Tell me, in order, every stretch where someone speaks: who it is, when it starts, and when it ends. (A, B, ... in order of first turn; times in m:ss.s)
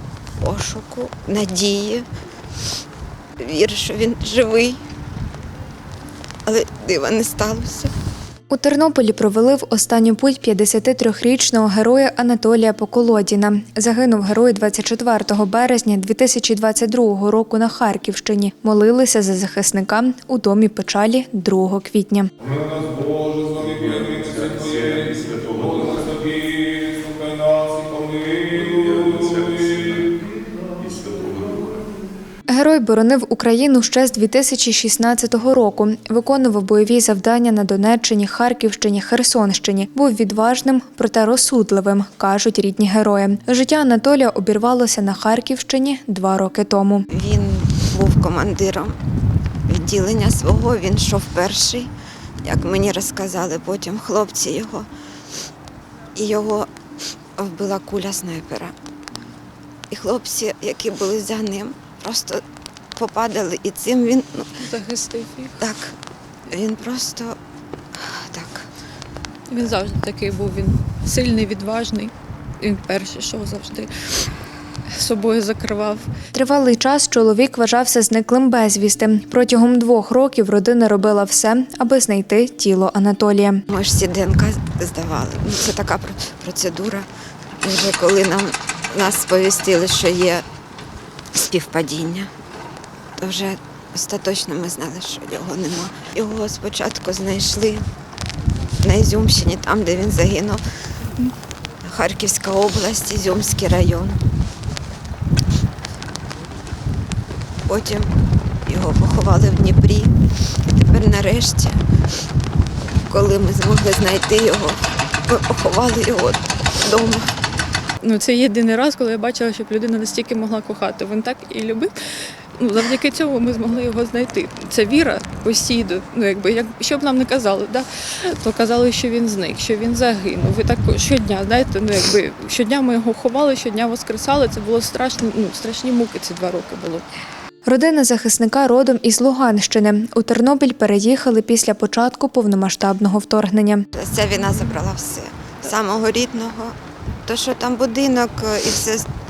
0:00.4-0:02.1 A
0:03.4-0:04.8 A
0:06.5-0:07.9 A
0:08.5-0:22.3 B
0:22.8-0:30.2 C
0:30.8-0:31.6 C
0:32.5-0:47.1 B
0:47.1-0:49.0 A
0:49.7-0:51.9 A
0:52.4-0:54.9 A
0:56.2-0:56.7 A
0:57.4-0:58.8 A
0:59.9-1:02.4 A
1:03.0-1:04.6 A
1:04.6-1:05.6 D
1:05.6-1:06.0 A
1:06.5-1:07.4 A
1:08.0-1:08.7 A
1:09.5-1:14.2 D
1:14.9-1:16.1 D
1:16.3-1:23.6 B
1:23.7-1:27.1 A
1:27.6-1:30.4 A
1:31.4-1:32.3 A
1:33.2-1:37.9 A
1:38.8-1:40.6 A
1:41.8-1:44.2 A
1:47.7-1:48.1 A
1:48.6-1:50.1 A
1:50.7-1:51.8 A
1:53.0-1:57.3 A
1:58.0-2:17.0 D
2:17.6-2:23.9 B
2:23.9-2:29.1 A